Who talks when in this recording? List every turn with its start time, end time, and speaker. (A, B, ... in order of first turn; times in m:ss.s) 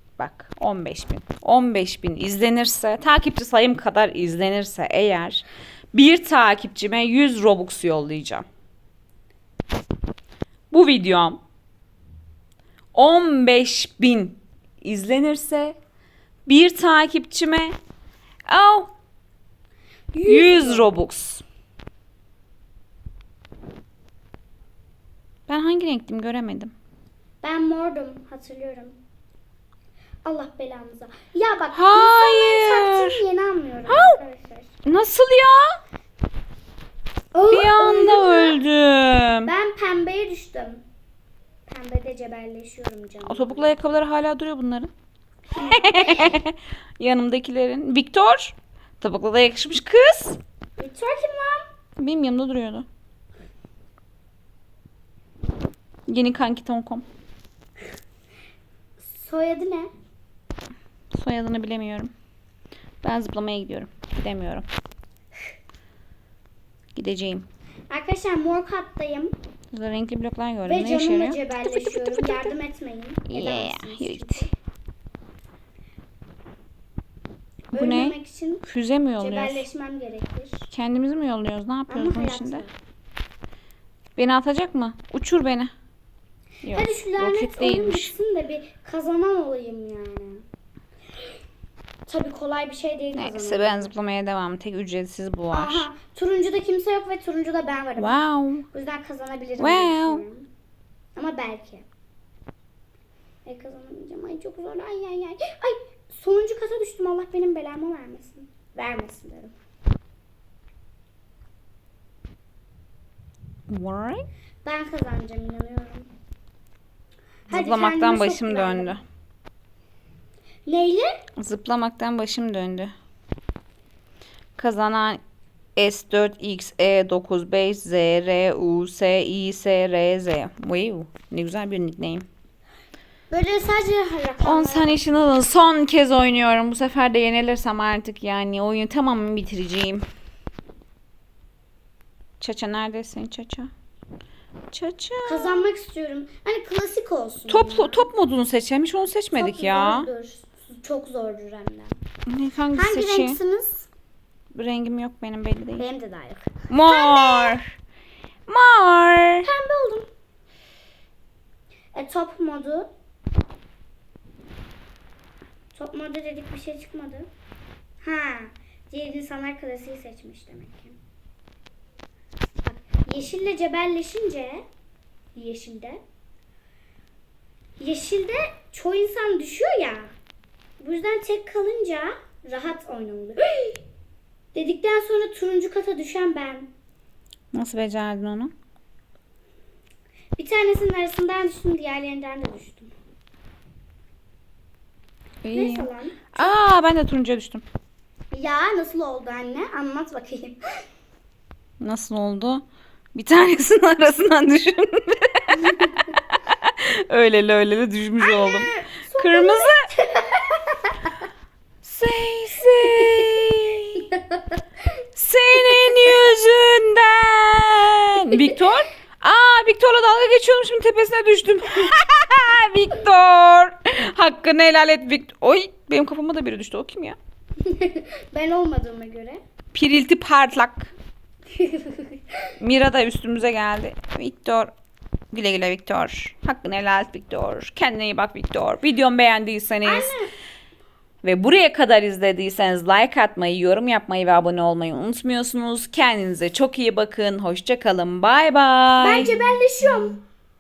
0:00.2-0:08.5 A
0:10.7-0:11.4 A
0:12.9-0:15.8 A
0:16.5-0:17.8 A
0:18.5-0:18.9 A
0:20.1-0:20.9 B
0:20.3-0:21.4 A
0:25.5-0:26.7 A
0:27.4-0:29.0 B
0:30.2-0:34.7 B
0:31.7-0:33.2 A
0:33.9-0:34.2 A
0:34.9-0:35.8 A
0:37.3-0:38.6 B
0:37.5-0:39.5 A
0:39.4-0:40.8 B
0:41.7-0:43.8 B
0:43.3-0:44.9 A
0:45.5-0:46.4 B
0:45.6-0:50.4 A
0:50.8-0:51.7 B
0:52.0-0:52.9 A
0:56.1-0:57.1 A
0:59.0-0:59.9 B
1:01.1-1:02.1 A
1:03.0-1:04.7 A
1:07.0-1:07.5 A
1:07.9-1:09.4 B
1:09.7-1:12.6 A
1:10.6-1:14.5 B
1:13.3-1:14.5 A
1:17.7-1:18.7 B
1:17.7-1:19.7 A
1:19.2-1:20.7 B
1:20.7-1:22.6 A
1:21.9-1:22.7 B
1:24.2-1:25.7 A
1:26.6-1:28.1 A
1:26.7-1:30.4 B
1:32.1-1:33.9 B
1:33.1-1:35.9 A
1:35.5-1:38.2 B
1:38.0-1:38.7 A
1:38.7-1:40.5 B
1:39.6-1:40.2 A
1:41.2-1:41.8 B
1:43.4-1:49.5 B
1:53.7-1:54.3 A
1:54.6-1:56.1 B
1:57.5-1:59.0 B
1:57.5-1:59.0 A
2:00.7-2:01.2 B
2:01.4-2:02.9 A
2:04.6-2:05.2 A
2:05.8-2:12.3 A
2:13.3-2:15.2 B
2:14.4-2:20.1 A
2:22.4-2:23.7 A
2:24.7-2:25.6 A
2:25.2-2:28.1 B
2:27.5-2:30.1 A
2:29.3-2:32.0 B
2:32.3-2:33.4 A
2:32.7-2:33.9 B
2:34.5-2:35.8 A
2:35.8-2:37.6 B
2:36.7-2:37.7 A
2:38.5-2:39.5 A
2:39.4-2:40.1 B
2:41.9-2:42.9 B
2:45.7-2:47.3 B
2:48.0-2:51.0 B
2:52.6-2:54.6 B
2:55.4-2:56.0 B
2:57.8-3:00.1 B
3:00.8-3:03.8 B
3:04.5-3:06.7 B
3:07.5-3:08.5 A
3:10.4-3:12.9 B
3:15.4-3:17.6 A
3:15.5-3:16.5 B
3:18.3-3:20.8 B
3:21.8-3:22.6 A
3:23.2-3:29.9 A
3:28.2-3:30.9 B
3:31.8-3:34.1 A
3:35.2-3:47.2 A
3:47.6-3:49.4 B
3:49.7-3:50.9 A
3:51.6-3:52.0 B
3:52.6-3:54.7 A
3:55.3-4:00.1 A
3:59.8-4:00.3 B
4:01.2-4:09.3 A
4:09.0-4:10.2 B